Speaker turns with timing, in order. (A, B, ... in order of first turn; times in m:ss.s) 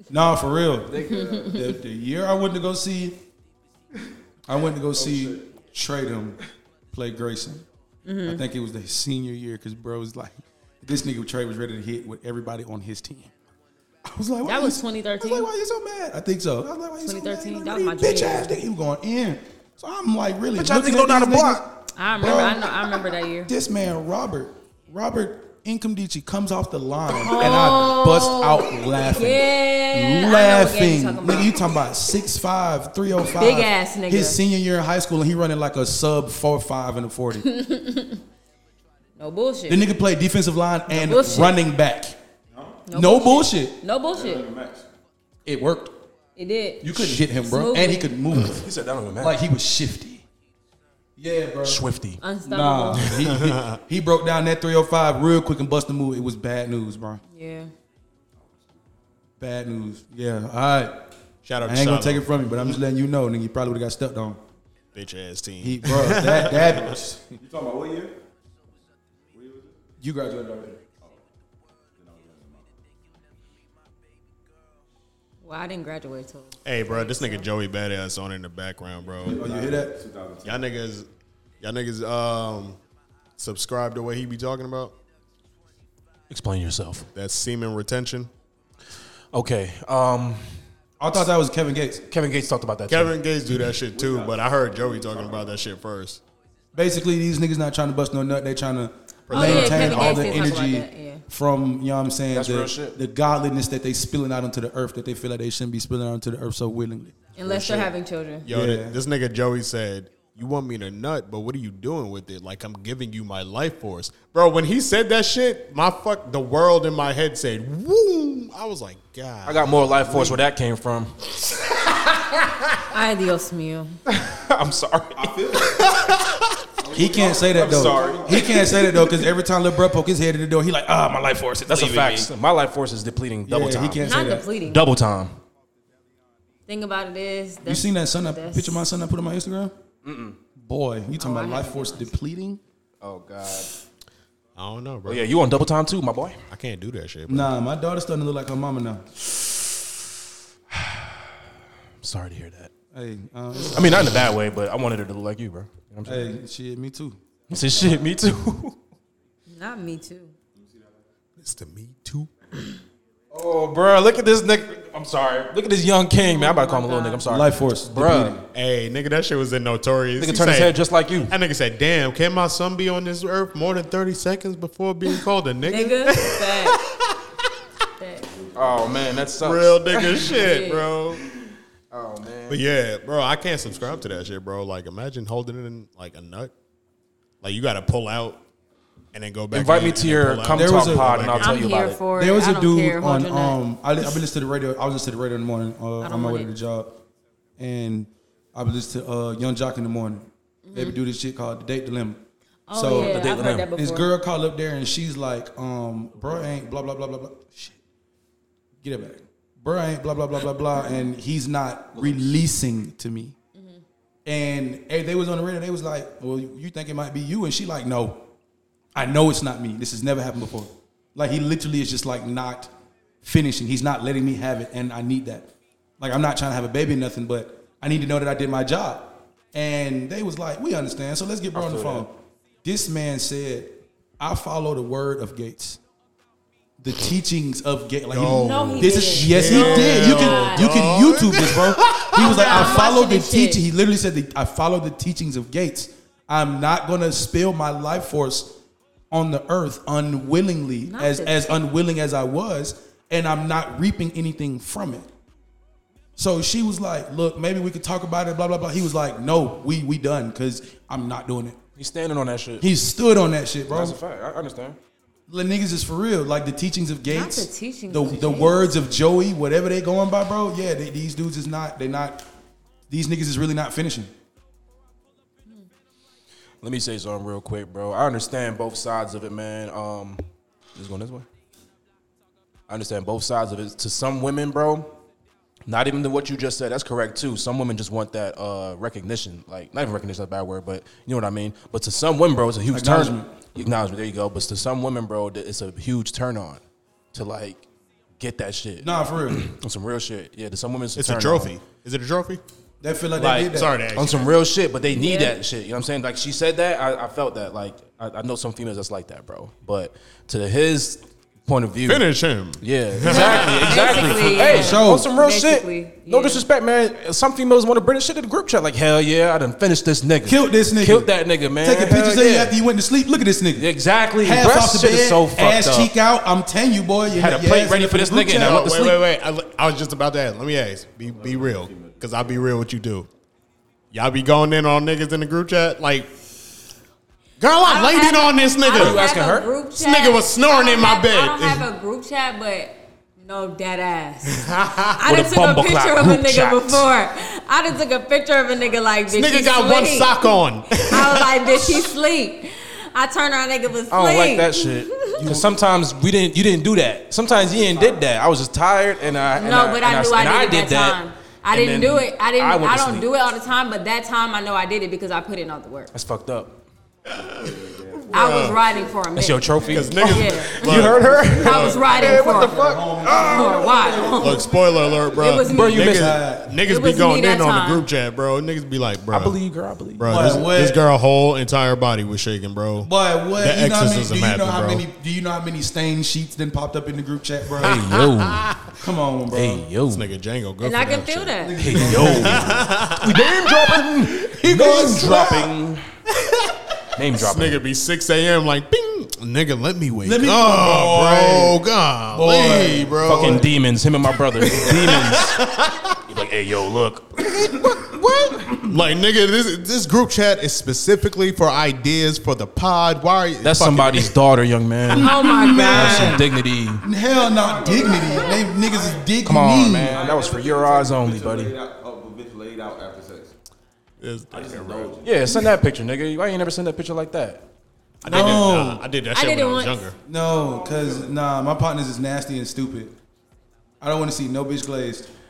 0:00.1-0:03.2 A
0:00.9-0:01.6 B
0:01.0-0:01.7 C
0:04.5-0:06.4 A
0:05.0-0:05.4 B
0:06.9-0:07.7 A
0:08.0-0:08.4 C
0:08.2-0:13.3 A
0:14.0-0:37.5 A
0:14.4-0:15.5 C
0:17.0-0:18.6 C
0:20.6-0:21.7 B
0:22.0-0:23.5 C
0:27.1-0:31.7 C
0:33.3-0:34.4 C
0:37.4-0:38.2 C
0:39.2-0:39.8 C
0:39.7-0:42.2 A
0:40.9-0:41.6 C
0:42.5-0:42.8 D
0:42.9-0:44.5 C
0:42.9-0:43.8 A
0:44.1-0:44.9 D
0:45.5-0:46.0 A
0:46.4-0:48.1 C
0:46.8-0:50.2 A
0:48.4-0:49.4 B
0:51.2-0:51.8 A
0:51.6-0:52.2 B
0:52.2-0:53.1 C
0:52.5-0:57.2 A
0:53.3-0:53.8 E
0:57.3-0:57.7 C
0:59.4-1:01.0 A
1:01.4-1:02.3 E
1:01.6-1:04.4 A
1:04.9-1:07.0 E
1:05.6-1:07.2 A
1:07.4-1:08.2 D
1:09.3-1:09.8 D
1:10.0-1:10.8 A
1:12.0-1:12.8 D
1:15.4-1:17.5 C
1:16.6-1:19.4 E
1:19.2-1:20.7 D
1:19.2-1:19.9 A
1:20.4-1:21.1 E
1:21.6-1:22.8 E
1:23.4-1:25.0 E
1:26.3-1:27.1 B
1:27.2-1:28.3 E
1:29.3-1:30.7 B
1:31.0-1:32.0 A
1:32.1-1:33.2 B
1:32.9-1:36.2 E
1:33.9-1:35.6 D
1:36.7-1:47.2 A
1:39.3-1:40.5 E
1:39.3-1:41.2 C
1:42.3-1:43.0 B
1:47.4-1:48.5 C
1:47.4-1:47.9 E
1:48.4-2:00.4 E
1:48.5-1:49.0 A
1:59.4-2:01.4 B
2:02.8-2:04.0 C
2:04.1-2:05.4 B
2:05.2-2:05.8 D
2:05.8-2:06.4 E
2:06.8-2:08.7 D
2:06.9-2:12.3 A
2:07.0-2:09.3 B
2:11.7-2:14.1 B
2:13.5-2:14.5 A
2:14.0-2:14.8 C
2:14.6-2:15.4 B
2:16.7-2:18.9 C
2:17.6-2:19.7 A
2:20.0-2:20.4 B
2:20.6-2:22.6 A
2:21.2-2:22.1 C
2:23.0-2:23.7 B
2:24.6-2:25.3 E
2:25.0-2:26.4 B
2:26.5-2:27.5 E
2:27.3-2:29.1 A
2:30.7-2:31.4 B
2:32.0-2:32.7 B
2:32.9-2:34.3 A
2:33.7-2:36.3 B
2:36.0-2:37.2 A
2:37.5-2:38.8 B
2:37.7-2:38.0 D
2:39.5-2:40.3 C
2:40.6-2:41.0 D
2:41.4-2:42.3 E
2:43.3-2:48.4 B
2:46.1-2:47.3 C
2:47.3-2:48.4 A
2:48.5-2:57.2 E
2:50.2-2:51.3 B
2:55.6-2:56.8 C
2:58.0-2:58.3 C
2:58.3-2:59.3 D
2:58.6-3:00.4 B
2:59.4-3:01.2 E
3:00.2-3:00.9 C
3:01.9-3:02.6 B
3:02.5-3:06.5 E
3:03.6-3:04.3 D
3:07.4-3:08.4 E
3:09.1-3:11.6 E
3:09.5-3:12.0 B
3:10.5-3:11.2 A
3:11.4-3:13.6 C
3:12.1-3:17.0 A
3:16.0-3:16.5 C
3:17.6-3:27.8 A
3:20.7-3:21.0 C
3:22.7-3:24.1 C
3:22.9-3:23.7 B
3:28.8-3:33.4 A
3:32.0-3:32.4 B
3:33.6-3:33.8 C
3:34.3-3:38.3 A
3:39.0-3:42.7 A
3:43.2-3:52.1 A
3:51.5-3:52.1 B
3:52.6-3:55.8 A
3:56.8-4:08.6 A
3:58.1-4:02.8 E
3:58.2-4:00.7 C
4:02.1-4:03.6 C
4:09.1-4:15.1 A
4:10.9-4:11.6 C
4:16.2-4:21.6 A
4:21.8-4:22.7 B
4:22.6-4:24.0 A
4:23.7-4:24.8 B
4:25.3-4:32.3 A
4:27.1-4:28.8 C
4:32.9-4:34.1 A
4:36.6-4:40.2 B
4:40.8-4:41.3 B
4:42.7-4:44.9 B
4:45.7-4:56.6 B
4:52.7-4:53.3 A
4:57.1-4:57.6 B
4:58.2-5:01.5 B
4:58.8-4:59.4 A
5:01.0-5:02.4 E
5:02.8-5:03.7 A
5:03.2-5:12.1 B
5:03.5-5:04.3 E
5:04.9-5:05.4 C
5:11.9-5:14.4 E
5:12.6-5:22.6 B
5:13.1-5:16.4 C
5:14.4-5:15.1 A
5:20.2-5:28.7 A
5:23.6-5:25.9 B
5:27.1-5:29.0 B
5:28.4-5:33.1 E
5:31.0-5:32.5 D
5:33.9-5:36.1 E
5:37.4-5:39.1 E
5:37.6-5:44.4 C
5:38.8-5:39.5 B
5:39.7-5:41.7 E
5:44.3-5:45.0 E
5:45.0-5:55.3 C
5:45.1-5:46.9 B
5:49.1-5:51.9 E
5:53.9-6:01.0 B
5:55.2-5:55.6 A
5:57.2-5:58.0 D
5:59.4-6:05.9 C
6:01.5-6:03.1 B
6:05.9-6:06.6 B
6:07.1-6:10.0 D
6:07.1-6:07.6 E
6:08.1-6:08.6 E
6:08.1-6:14.5 C
6:09.2-6:13.9 B
6:09.6-6:12.1 E
6:10.8-6:11.8 D
6:12.1-6:14.0 A
6:12.4-6:15.4 D
6:14.2-6:19.4 E
6:15.1-6:16.0 C
6:15.4-6:16.2 B
6:15.6-6:16.6 A
6:16.6-6:17.9 C
6:19.1-6:20.5 B
6:20.0-6:24.8 E
6:20.1-6:20.8 A
6:22.8-6:27.8 A
6:27.6-6:28.5 B
6:27.6-6:28.8 E
6:28.8-6:29.7 A
6:29.3-6:30.1 B
6:29.9-6:33.3 E
6:30.6-6:31.7 C
6:31.4-6:32.7 A
6:31.6-6:35.8 B
6:34.0-6:35.5 A
6:36.2-6:36.5 E
6:37.0-6:37.6 B
6:37.2-6:43.5 E
6:40.0-6:43.5 A
6:43.0-6:45.4 B
6:44.4-6:46.0 E
6:46.0-6:48.7 B
6:48.6-6:54.2 E
6:53.4-6:56.9 B
6:54.9-7:00.1 A
6:55.0-6:56.2 C
6:57.3-6:59.1 D
6:57.5-6:58.5 C
6:59.2-7:01.5 B
6:59.9-7:03.4 D
7:04.0-7:04.9 E
7:04.3-7:05.3 D
7:05.0-7:07.4 B
7:08.0-7:10.0 E
7:08.0-7:08.8 A
7:08.1-7:08.4 C
7:09.1-7:09.9 C
7:10.1-7:13.0 A
7:10.1-7:11.1 D
7:13.8-7:15.1 A